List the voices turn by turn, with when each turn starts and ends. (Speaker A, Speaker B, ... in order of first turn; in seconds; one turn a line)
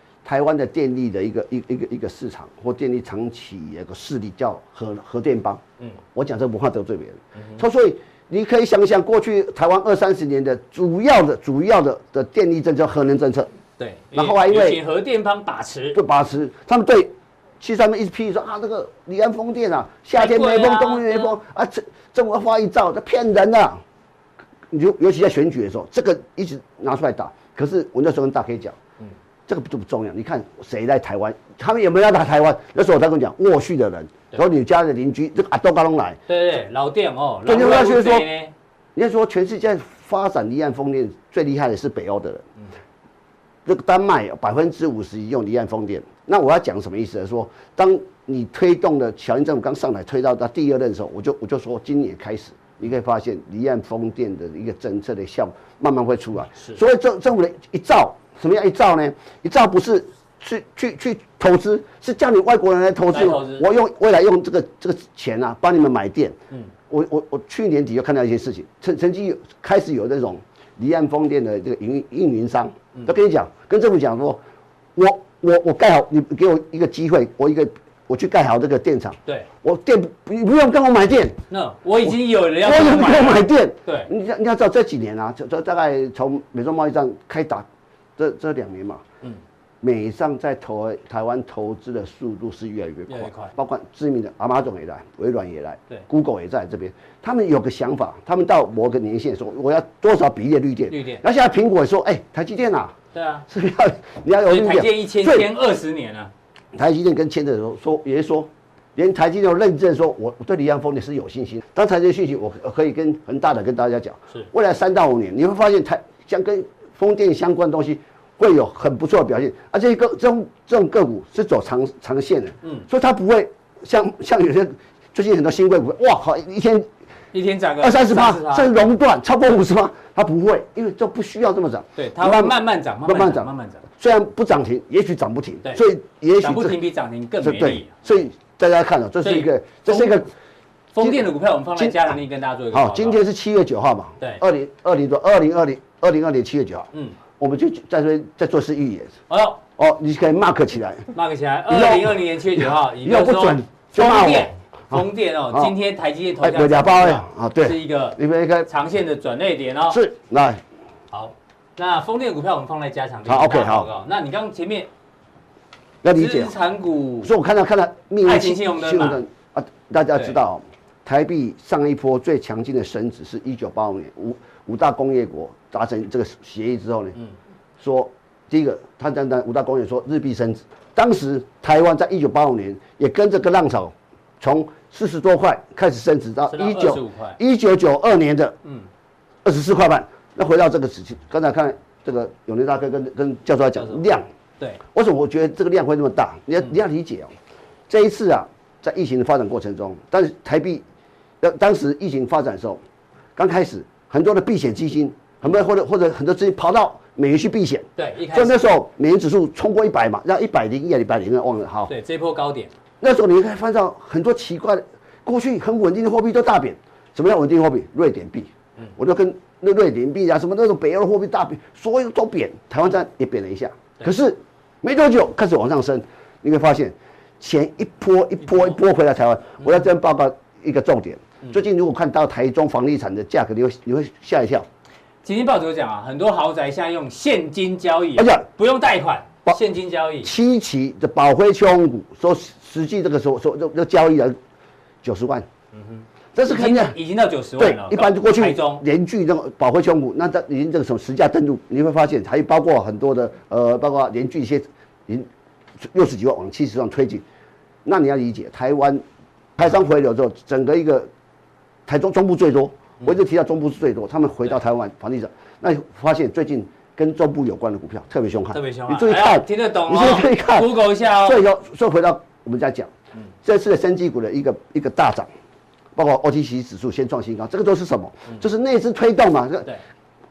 Speaker A: 0.2-5.6
Speaker A: 6.1-13.5
Speaker B: 7.3-7.6
Speaker B: 13.8-16.0
Speaker A: 14.1-14.8
Speaker A: 15.9-23.8
Speaker B: 20.2-21.3
Speaker A: 24.7-28.8
Speaker A: 29.4-36.2
Speaker B: 36.3-38.5
Speaker A: 37.5-38.3
Speaker A: 38.9-42.4
Speaker A: 43.6-66.4
Speaker B: 63.1-63.7
Speaker A: 66.9-74.4
Speaker A: 74.9-81.4
Speaker B: 81.5-84.1
Speaker A: 82.1-87.6
Speaker A: 88.2-89.0
Speaker A: 89.8-103.0
Speaker B: 93.1-93.5
Speaker B: 100.9-101.2
Speaker B: 103.1-103.5
Speaker A: 103.5-105.5
Speaker B: 104.4-106.3
Speaker A: 106.7-126.9
Speaker B: 127.3-128.9
Speaker A: 127.8-136.8
Speaker B: 131.9-133.9
Speaker B: 136.4-138.0
Speaker A: 137.4-140.3
Speaker B: 139.2-140.2
Speaker B: 140.9-143.2
Speaker A: 141.0-142.2
Speaker A: 142.7-149.2
Speaker B: 149.3-149.6
Speaker A: 149.8-151.1
Speaker B: 151.1-160.0
Speaker A: 151.7-155.7
Speaker A: 156.4-158.7
Speaker A: 159.9-160.6
Speaker B: 161.1-164.9
Speaker A: 163.2-163.9
Speaker A: 166.0-166.5
Speaker B: 166.1-167.3
Speaker A: 167.2-177.2
Speaker B: 168.2-169.2
Speaker A: 177.8-188.6
Speaker B: 186.5-187.4
Speaker A: 189.4-194.3
Speaker B: 193.8-194.0
Speaker A: 194.9-197.3
Speaker A: 197.9-200.8
Speaker A: 201.4-202.8
Speaker A: 203.3-211.9
Speaker B: 207.9-208.6
Speaker B: 211.9-212.7
Speaker A: 213.0-234.7
Speaker B: 235.2-240.3
Speaker A: 238.2-238.4
Speaker A: 240.2-244.4
Speaker A: 245.0-245.5
Speaker B: 245.7-248.8
Speaker A: 246.3-247.0
Speaker A: 247.6-255.3
Speaker A: 255.8-257.2
Speaker A: 257.8-259.0
Speaker A: 259.6-261.1
Speaker A: 261.9-272.9
Speaker B: 268.5-271.4
Speaker A: 273.4-275.3
Speaker A: 275.9-279.7